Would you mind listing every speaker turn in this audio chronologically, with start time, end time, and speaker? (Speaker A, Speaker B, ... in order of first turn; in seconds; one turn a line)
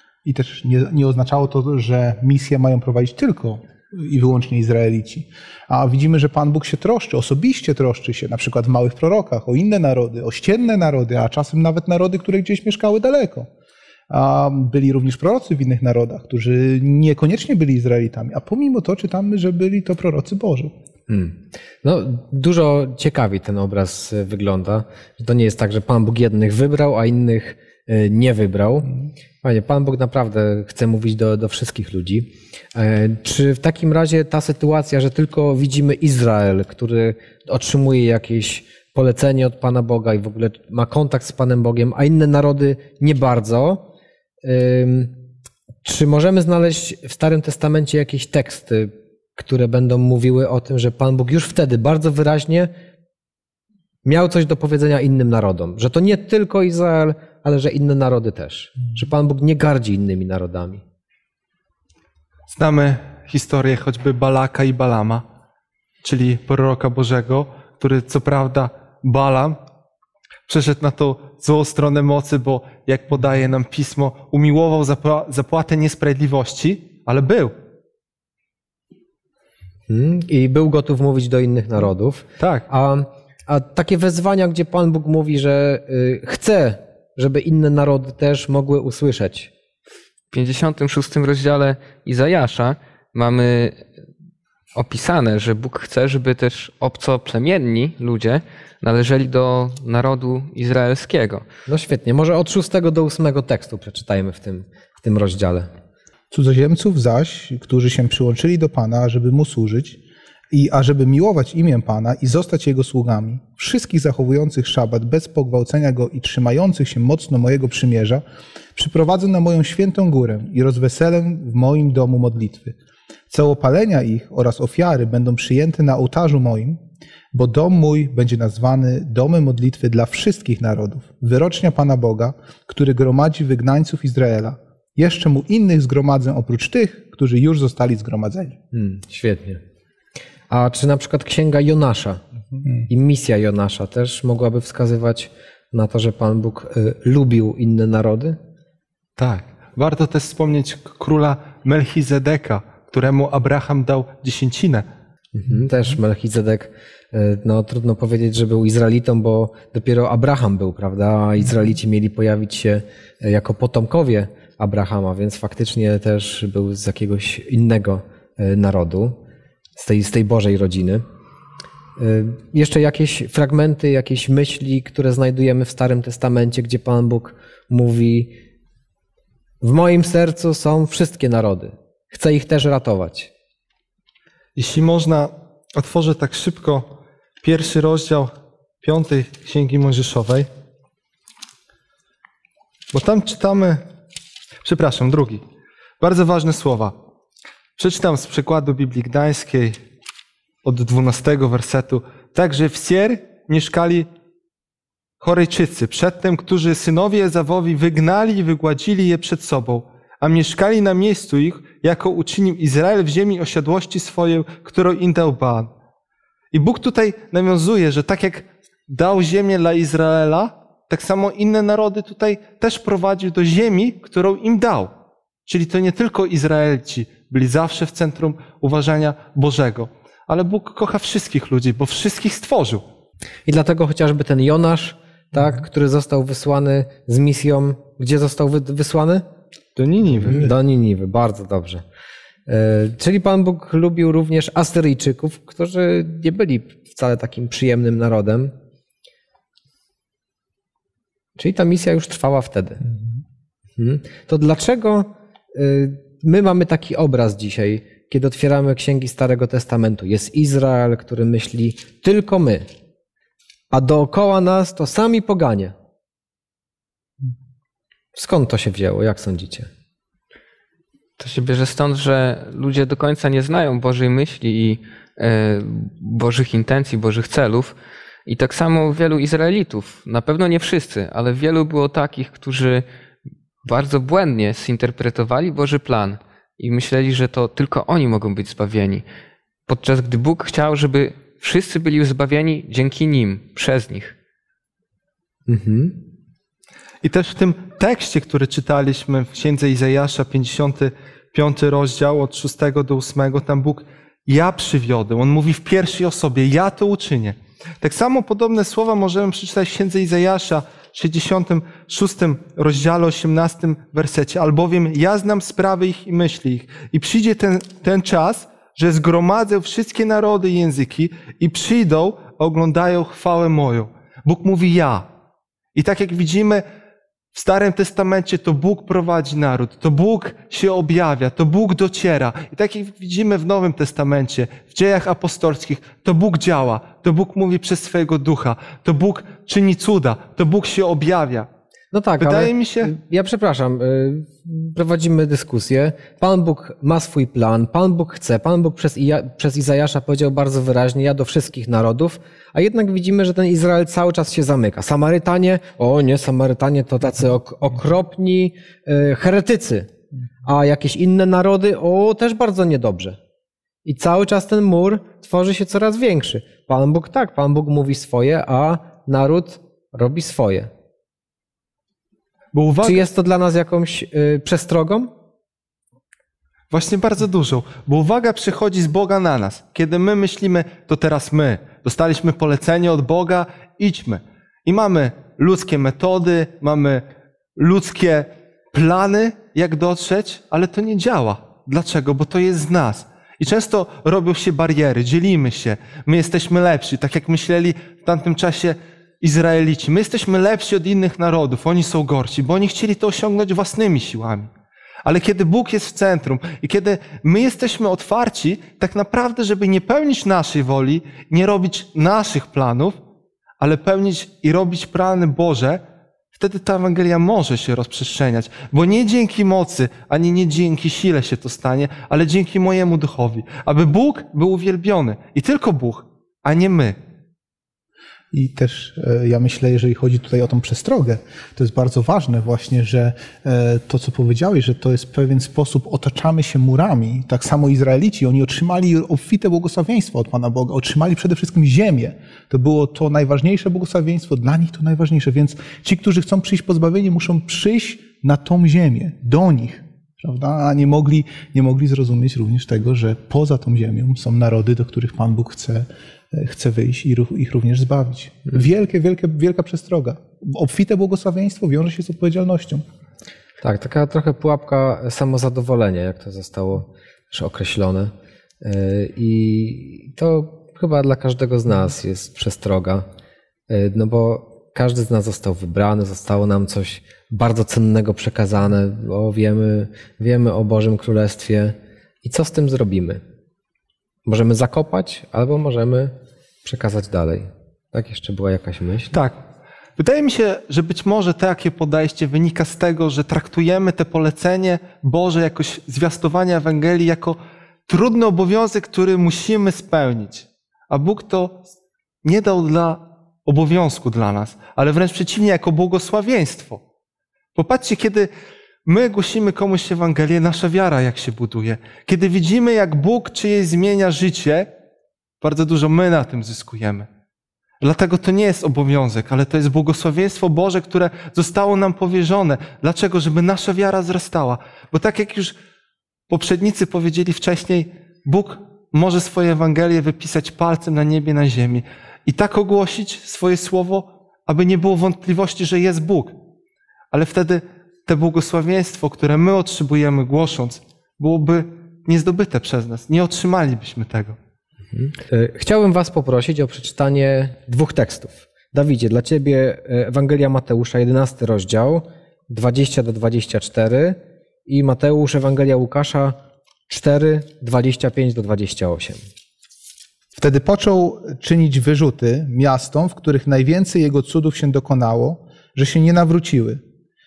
Speaker A: 0.2-13.5
Speaker A: 14.1-20.7
Speaker B: 21.1-43.9
Speaker B: 44.4-45.2
Speaker B: 45.8-52.7
Speaker B: 54.0-60.8
Speaker C: 62.5-65.2
Speaker C: 66.0-69.6
Speaker C: 70.5-77.5
Speaker B: 79.9-89.5
Speaker C: 82.4-82.7
Speaker D: 90.3-93.8
Speaker D: 94.8-101.5
Speaker B: 101.7-105.7
Speaker A: 106.3-110.0
Speaker A: 110.5-118.2
Speaker A: 118.8-122.8
Speaker A: 123.3-126.8
Speaker A: 127.3-138.6
Speaker B: 138.7-139.6
Speaker B: 140.5-142.2
Speaker B: 142.9-148.4
Speaker C: 149.2-154.9
Speaker B: 155.3-169.2
Speaker B: 169.8-171.1
Speaker B: 172.0-178.4
Speaker B: 179.6-183.3
Speaker C: 184.6-188.3
Speaker C: 188.8-190.5
Speaker C: 192.9-193.8
Speaker C: 194.6-195.4
Speaker C: 196.0-197.0
Speaker C: 197.8-199.8
Speaker C: 200.6-204.1
Speaker C: 205.2-215.7
Speaker C: 216.5-224.9
Speaker C: 225.5-232.8
Speaker B: 233.5-239.2
Speaker C: 239.8-240.5
Speaker B: 240.2-241.8
Speaker B: 242.5-248.5
Speaker B: 251.4-252.9
Speaker B: 253.8-262.7
Speaker B: 263.7-265.7
Speaker B: 268.1-269.7
Speaker D: 271.2-277.8
Speaker D: 278.3-282.9
Speaker D: 283.6-289.1
Speaker D: 289.7-294.1
Speaker B: 295.5-296.0
Speaker C: 297.0-325.1
Speaker C: 325.8-326.6
Speaker C: 327.3-341.5
Speaker B: 341.9-359.9
Speaker C: 342.2-342.9
Speaker B: 360.4-363.2
Speaker B: 363.9-370.7
Speaker C: 372.5-373.1
Speaker B: 372.8-375.1
Speaker C: 376.7-387.0
Speaker C: 387.6-404.5
Speaker C: 405.0-413.0
Speaker C: 413.6-415.8
Speaker C: 416.3-427.0
Speaker A: 428.3-462.8
Speaker B: 463.6-473.1
Speaker B: 473.7-483.2
Speaker B: 484.3-489.2
Speaker C: 489.1-489.4
Speaker C: 490.0-501.7
Speaker C: 502.2-506.8
Speaker C: 507.6-508.3
Speaker C: 508.9-514.7
Speaker C: 515.4-517.1
Speaker C: 517.8-525.5
Speaker C: 526.3-536.4
Speaker C: 537.1-544.4
Speaker B: 544.9-559.2
Speaker A: 560.4-566.8